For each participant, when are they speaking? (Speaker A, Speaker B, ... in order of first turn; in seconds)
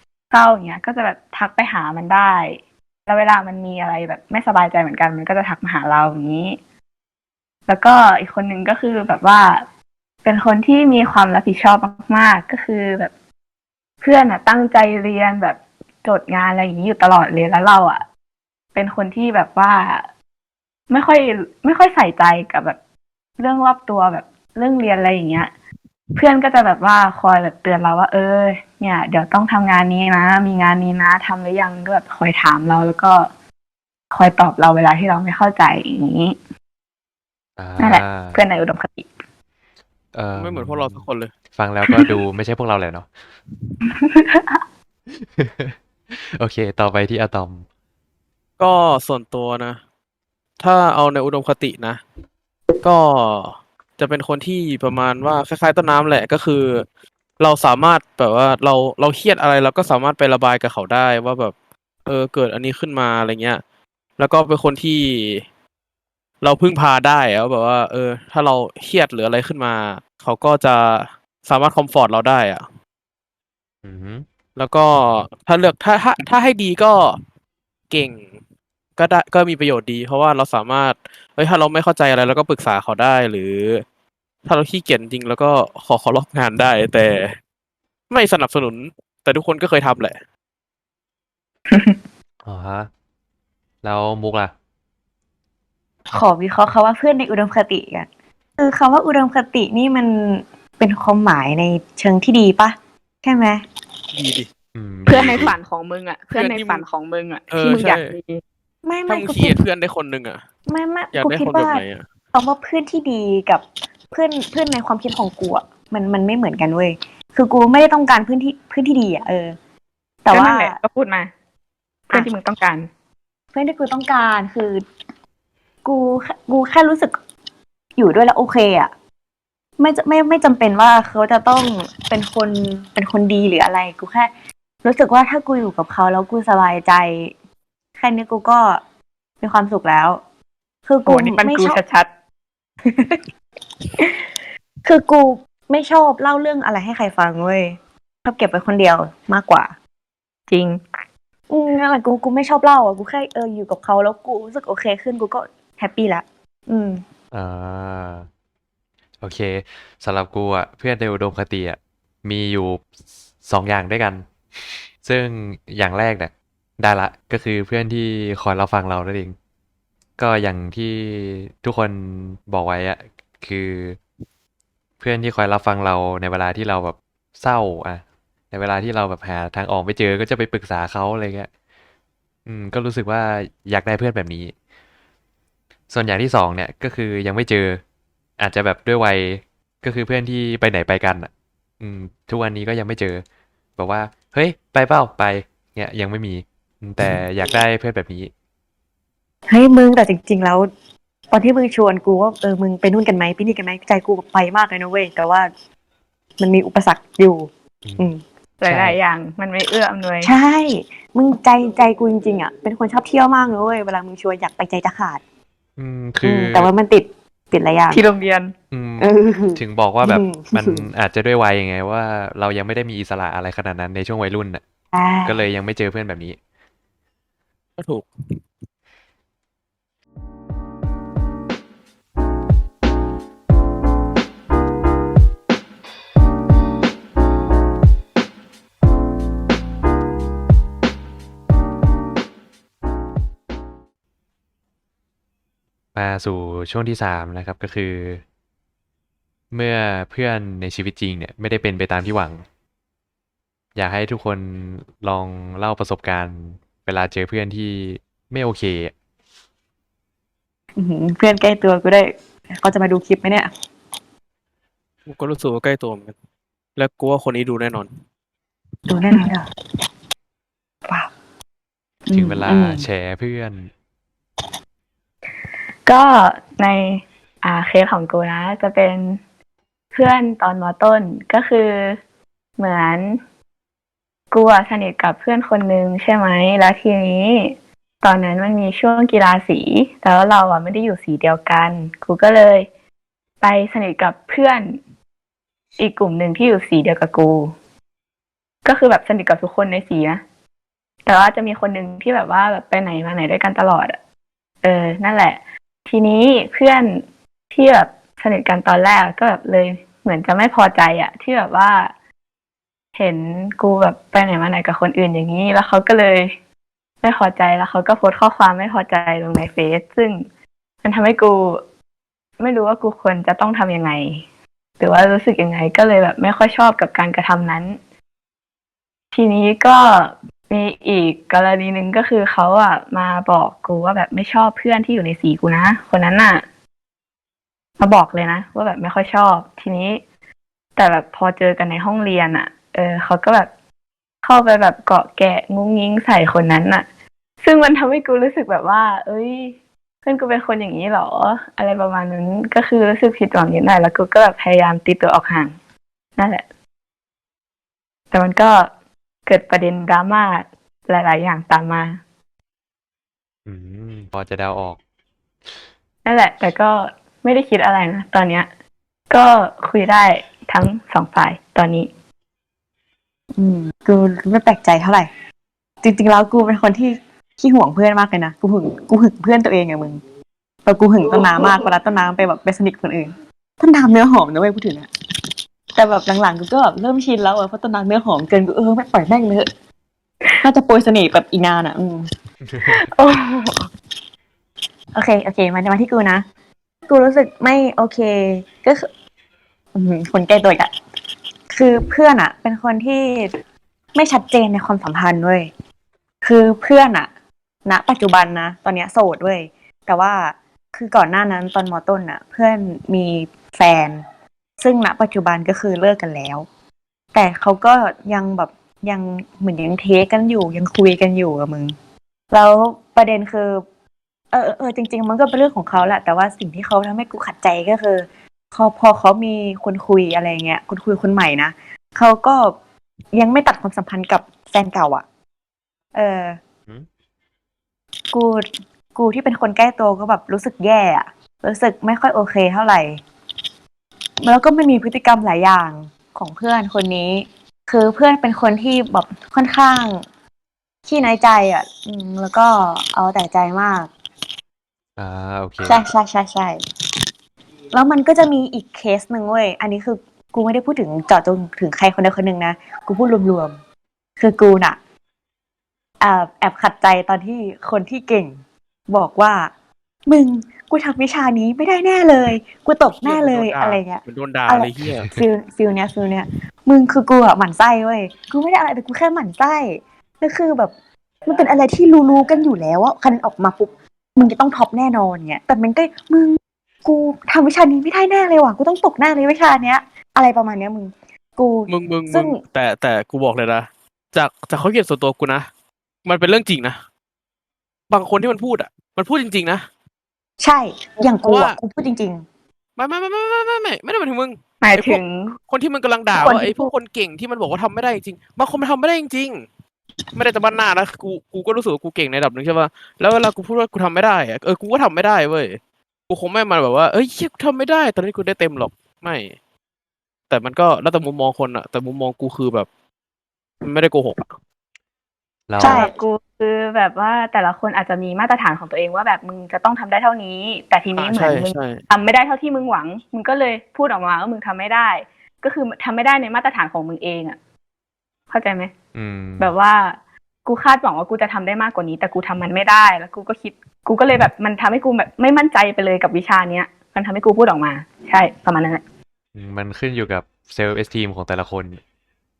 Speaker A: 0.3-6.6, 7.7-9.7, 10.2-13.1, 14.0-18.0, 18.7-20.1, 20.9-22.8, 23.4-25.5, 26.1-33.3, 34.1-36.4, 37.8-39.1, 44.0-44.6, 91.7-92.0, 105.1-108.4, 120.3-121.3, 122.1-122.9, 141.1-142.1, 150.5-150.8, 208.6-210.3, 217.9-218.5, 275.9-279.2, 279.9-282.0, 282.6-283.2, 284.3-292.7, 293.4-294.8, 295.8-297.5, 298.6-300.2, 301.1-304.0, 304.6-311.9, 312.9-316.3, 317.0-320.2, 320.8-321.6, 322.4-324.2, 324.8-327.8, 329.1-336.4, 337.8-340.0, 340.8-343.5, 344.2-346.9, 347.4-355.5, 356.2-356.4, 358.1-358.7, 359.2-362.0, 366.0-368.5, 369.1-371.9, 392.6-393.7, 504.6-505.4, 525.6-537.4, 538.3-538.7, 539.4-548.8
Speaker B: 37.6-38.4, 40.1-43.1, 45.1-47.6, 73.8-74.2, 92.4-92.9, 93.8-94.5, 104.7-105.5, 157.3-158.3, 159.2-162.8, 163.4-169.3, 170.2-174.0, 175.0-181.5, 182.4-184.5, 185.9-187.8, 188.4-193.2, 193.8-198.3, 207.8-208.1, 208.6-209.0, 215.8-216.7, 218.7-224.6, 225.2-226.4, 245.9-248.2, 249.5-252.4, 253.8-258.9, 272.1-273.7, 363.4-364.8, 392.4-392.8, 455.0-455.8, 525.5-525.9, 538.9-539.5, 549.3-551.8
Speaker C: 40.4-41.3, 48.6-49.8, 50.6-52.0, 52.8-56.9, 57.4-61.5, 62.0-63.6, 64.2-65.4, 66.4-72.7, 74.5-77.2, 77.9-78.3, 79.0-83.8, 84.5-87.4, 88.1-90.2, 104.1-104.5, 106.3-106.8, 107.5-108.2, 109.1-110.4, 111.1-112.0, 227.8-228.4, 265.1-266.1, 266.8-267.9, 472.9-475.1, 491.7-495.5, 496.0-496.8, 497.9-499.7, 501.2-501.6, 502.8-509.4, 510.1-519.3, 520.3-522.7, 523.6-524.3, 531.0-531.8
Speaker D: 96.1-103.6, 108.8-109.6, 110.7-119.5, 120.2-120.8, 123.5-124.8, 125.8-127.2, 128.0-128.9, 129.8-134.3, 134.8-137.3, 138.0-138.8, 139.4-140.2, 140.8-141.8, 142.8-143.2, 144.0-144.3, 144.8-149.7, 151.5-157.0, 199.5-200.7, 201.3-205.5, 206.4-208.2, 210.2-215.2, 216.2-218.0, 219.0-220.8, 224.9-225.4, 260.8-263.5, 268.9-269.5, 270.9-271.1, 272.1-272.9, 373.3-375.1, 375.8-380.0, 380.6-384.9, 385.7-389.5, 390.4-392.1, 394.9-396.2, 396.9-398.9, 399.7-400.7, 401.5-403.3, 403.9-405.5, 406.2-407.1, 407.6-414.0, 414.6-416.4, 417.1-421.7, 422.3-423.6, 424.3-432.6, 433.1-435.0, 435.9-436.4, 438.1-443.0, 444.2-450.0, 450.9-453.9, 455.6-456.6, 457.7-463.6, 464.2-464.8, 466.0-469.5, 470.1-480.7, 481.2-492.4, 500.4-502.2, 506.1-506.7, 525.6-525.9